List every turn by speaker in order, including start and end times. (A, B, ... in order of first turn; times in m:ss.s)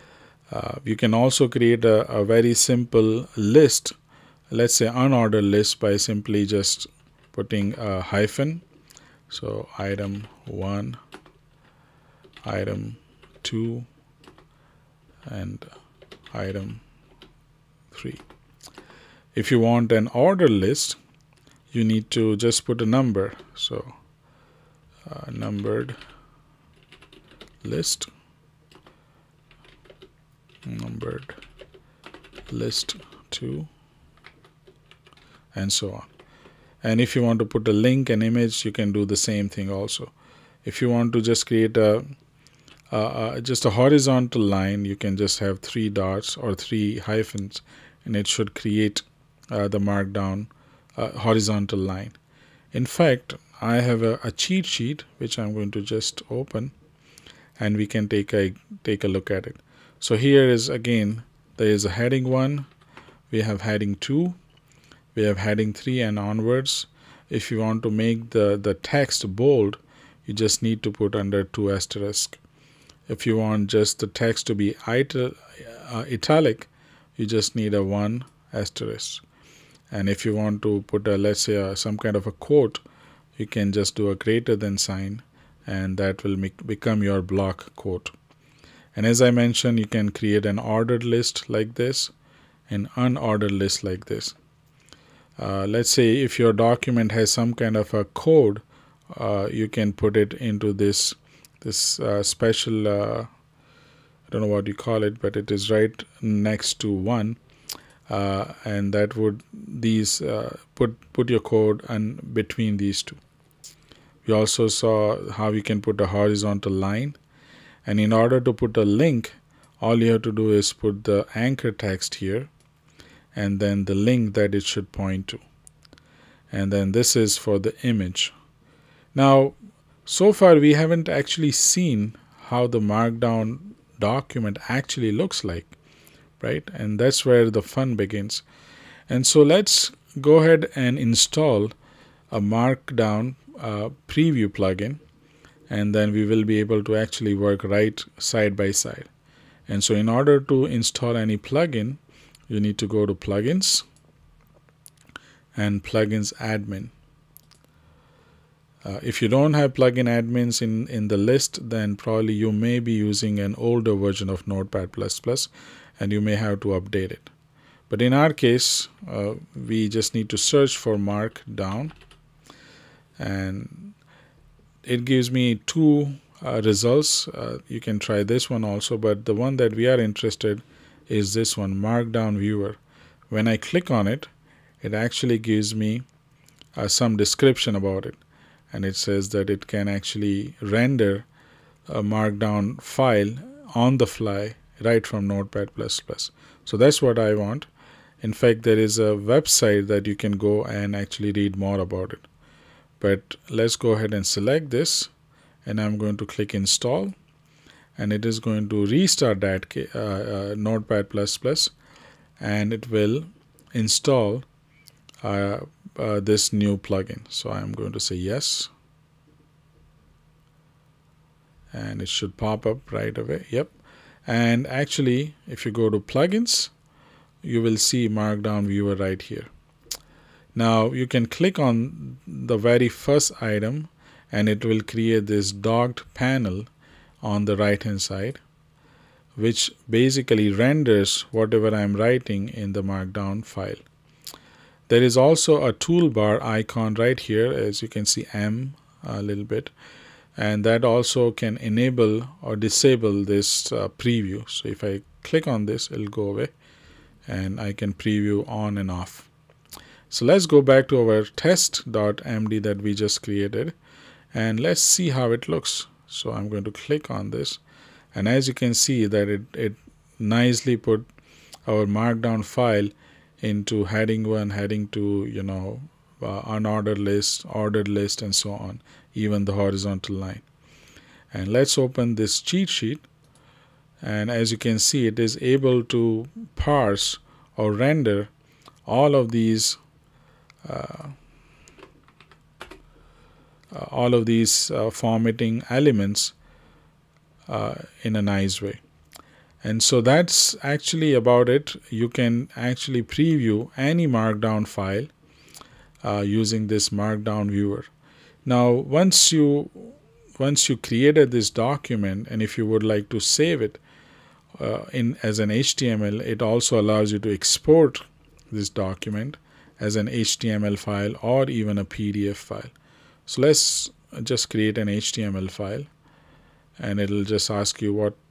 0:00.5-0:03.9 A
0:04.5-0:08.6 A
0:09.3-0:11.0 A
0:12.4-0:13.9 A
0:15.2-0:15.7 A
0:16.3-0:16.8 A
0:17.9-0:18.2 A
0:19.3-0:21.0 A
0:21.7-0:23.9 A
0:25.0-0:26.0 A
0:27.6-0:28.1 A
0:30.6-0:31.4 A
0:32.5-0:33.7 A
0:35.5-0:36.1 A
0:36.8-0:40.1 A
0:40.6-0:42.1 A
0:42.9-0:52.2 A
0:52.7-0:56.7 A
0:57.6-1:02.7 A
1:03.3-1:04.4 A
1:05.1-1:12.4 A
1:13.1-1:19.2 A
1:19.9-1:22.8 A
1:23.4-1:28.1 A
1:28.9-1:32.1 A
1:32.7-1:34.4 A
1:35.4-1:43.3 A
1:44.3-1:47.4 A
1:48.1-1:53.2 A
1:54.2-1:57.2 A
1:57.8-2:02.5 A
2:03.3-2:05.4 A
2:06.5-2:08.3 A
2:09.1-2:15.8 A
2:16.4-2:18.4 A
2:19.1-2:21.7 A
2:22.3-2:25.0 A
2:25.7-2:29.1 A
2:29.7-2:33.8 A
2:35.5-2:36.9 A
2:38.8-2:47.3 A
2:47.9-2:51.9 A
2:53.2-2:53.9 A
2:54.8-3:02.8 A
3:03.3-3:04.3 A
3:04.8-3:06.0 A
3:06.8-3:08.2 A
3:08.7-3:11.3 A
3:11.9-3:17.7 A
3:18.2-3:22.2 A
3:23.0-3:25.1 A
3:25.6-3:27.1 A
3:28.0-3:31.7 A
3:32.4-3:34.4 A
3:35.2-3:38.7 A
3:41.7-3:43.7 A
3:44.2-3:46.7 A
3:47.4-3:49.5 A
3:50.5-3:56.7 A
3:57.2-3:58.4 A
3:59.4-4:03.8 A
4:04.9-4:09.7 A
4:10.4-4:16.5 A
4:17.3-4:19.3 A
4:20.1-4:23.8 A
4:24.3-4:27.6 A
4:28.1-4:31.1 A
4:31.6-4:40.4 A
4:41.3-4:43.0 A
4:44.0-4:48.3 A
4:48.8-4:49.8 A
4:50.6-4:51.1 A
4:53.7-4:56.3 A
4:57.5-4:58.8 A
4:59.6-5:05.1 A
5:06.0-5:07.9 A
5:08.4-5:13.8 A
5:14.6-5:22.7 A
5:23.2-5:25.9 A
5:26.8-5:28.2 A